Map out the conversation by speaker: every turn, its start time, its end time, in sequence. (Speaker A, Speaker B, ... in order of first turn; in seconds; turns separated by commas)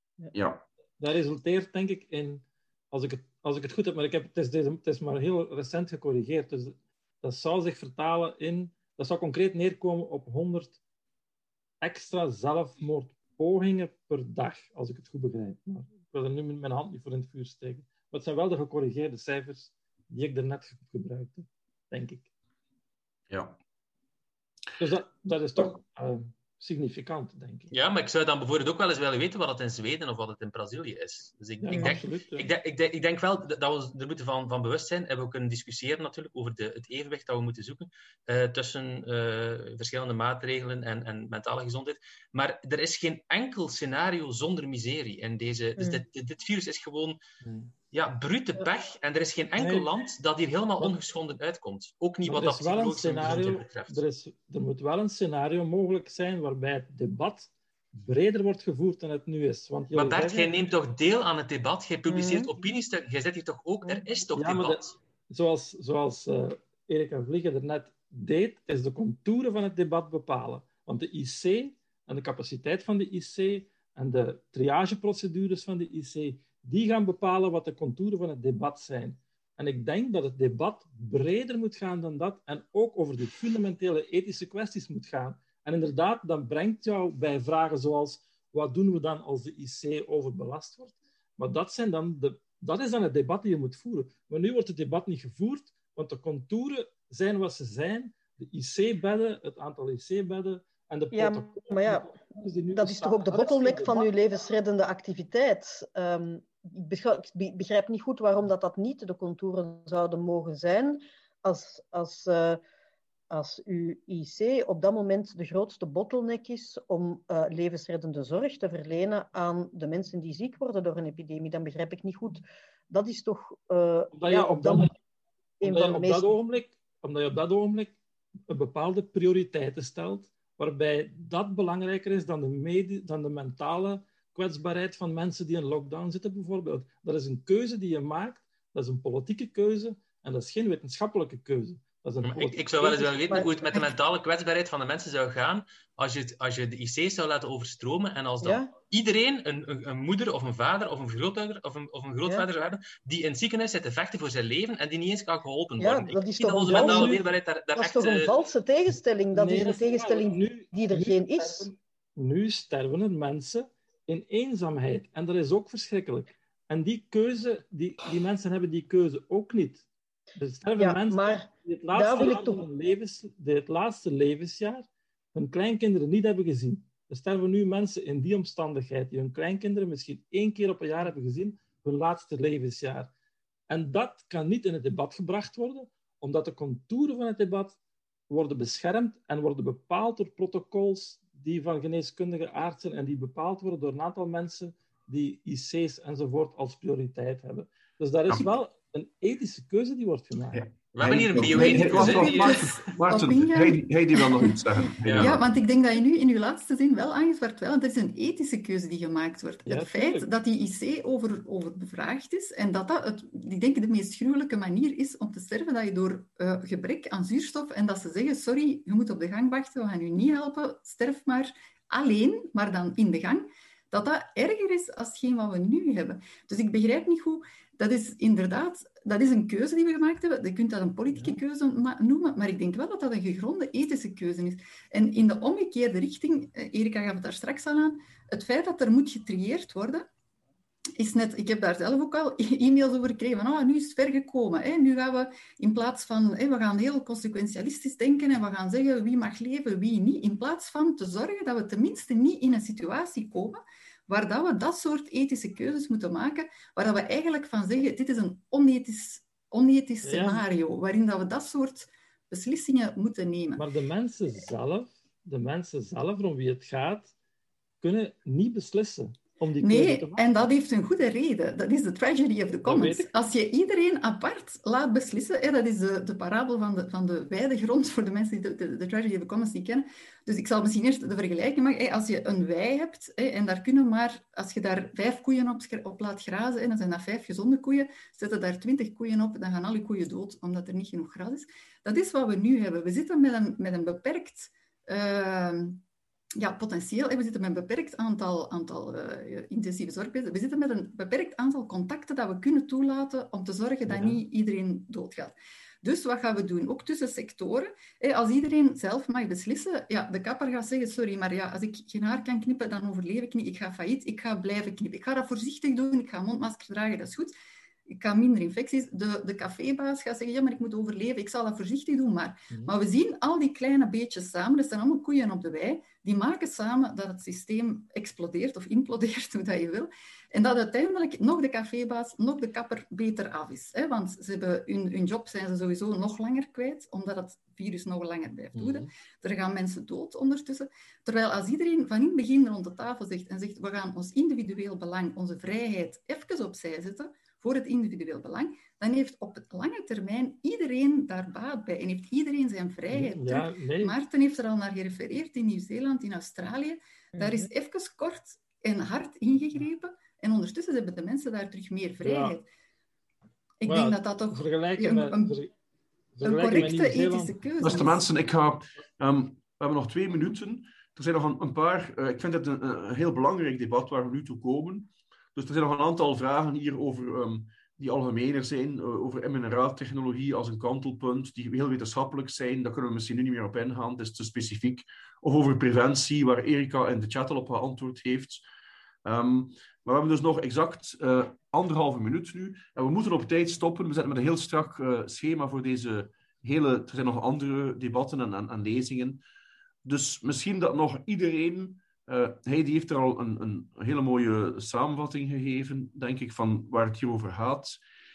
Speaker A: 0.3-0.6, Speaker B: 1.0-10.8, Speaker B: 11.8-22.3, Speaker A: 23.3-23.6, Speaker B: 24.8-27.7, Speaker C: 27.7-47.2, Speaker B: 31.6-32.5, Speaker D: 45.8-46.0, Speaker B: 47.4-47.7, Speaker C: 47.9-54.0, Speaker B: 49.5-49.9, Speaker B: 52.2-60.5, Speaker C: 59.9-65.0, Speaker D: 62.1-62.5, Speaker B: 64.3-104.1, Speaker D: 101.1-102.1, Speaker D: 102.7-112.6, Speaker D: 113.3-124.9, Speaker B: 124.1-124.9, Speaker D: 125.6-126.3, Speaker B: 125.6-128.0, Speaker B: 128.5-142.8, Speaker C: 142.2-158.3, Speaker D: 142.8-143.9, Speaker D: 148.4-148.7, Speaker D: 155.8-157.2, Speaker B: 156.7-157.2, Speaker D: 157.7-161.7, Speaker B: 159.3-169.8, Speaker B: 170.4-183.1, Speaker D: 170.8-172.6, Speaker B: 183.7-187.8, Speaker B: 188.3-200.7, Speaker A: 200.5-205.5, Speaker C: 200.9-202.9, Speaker E: 201.4-240.1, Speaker C: 205.0-205.4, Speaker B: 209.7-210.3, Speaker E: 241.0-263.7, Speaker B: 260.0-260.4, Speaker B: 263.6-267.1, Speaker B: 267.8-270.2, Speaker E: 269.6-295.8, Speaker B: 272.6-273.1, Speaker E: 296.4-317.3, Speaker B: 303.9-304.2, Speaker E: 317.9-362.4, Speaker B: 352.9-354.0, Speaker D: 357.2-357.5, Speaker B: 362.0-362.4, Speaker E: 363.6-365.4, Speaker B: 363.6-365.5, Speaker B: 366.1-367.4, Speaker E: 366.2-368.0, Speaker A: 367.6-388.4, Speaker A: 389.0-399.2, Speaker A: 399.8-407.8